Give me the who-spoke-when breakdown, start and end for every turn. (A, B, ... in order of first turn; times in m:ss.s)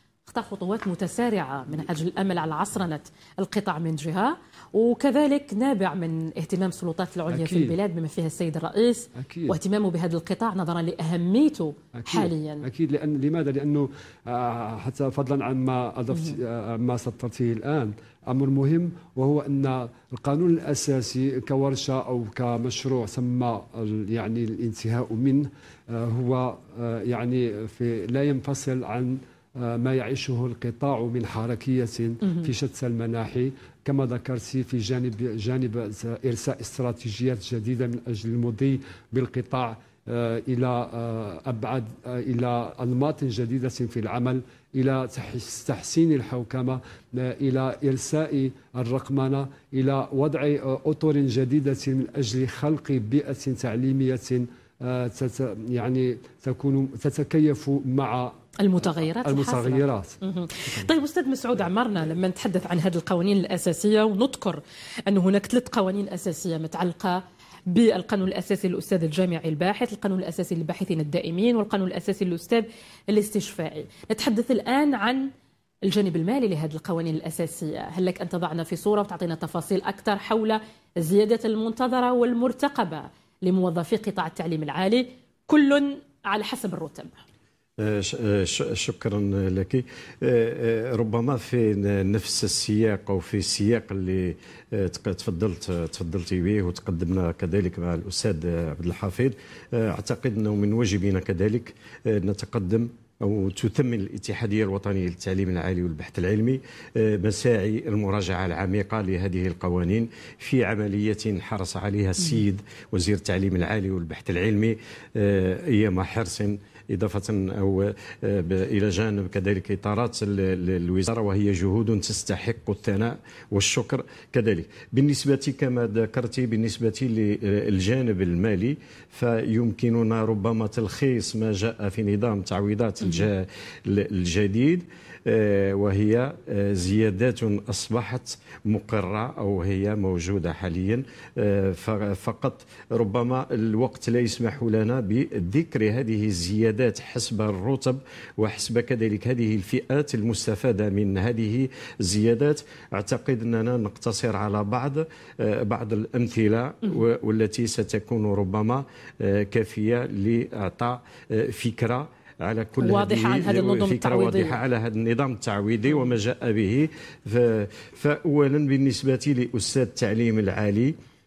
0:00.3-0:12.6 A
0:07.3-0:07.8 B
0:09.2-0:09.6 B
0:12.0-0:58.3 B
0:58.6-1:15.3 A
0:59.2-1:00.9 B
1:15.8-1:27.1 A
1:27.8-2:50.9 C
2:42.8-2:44.6 A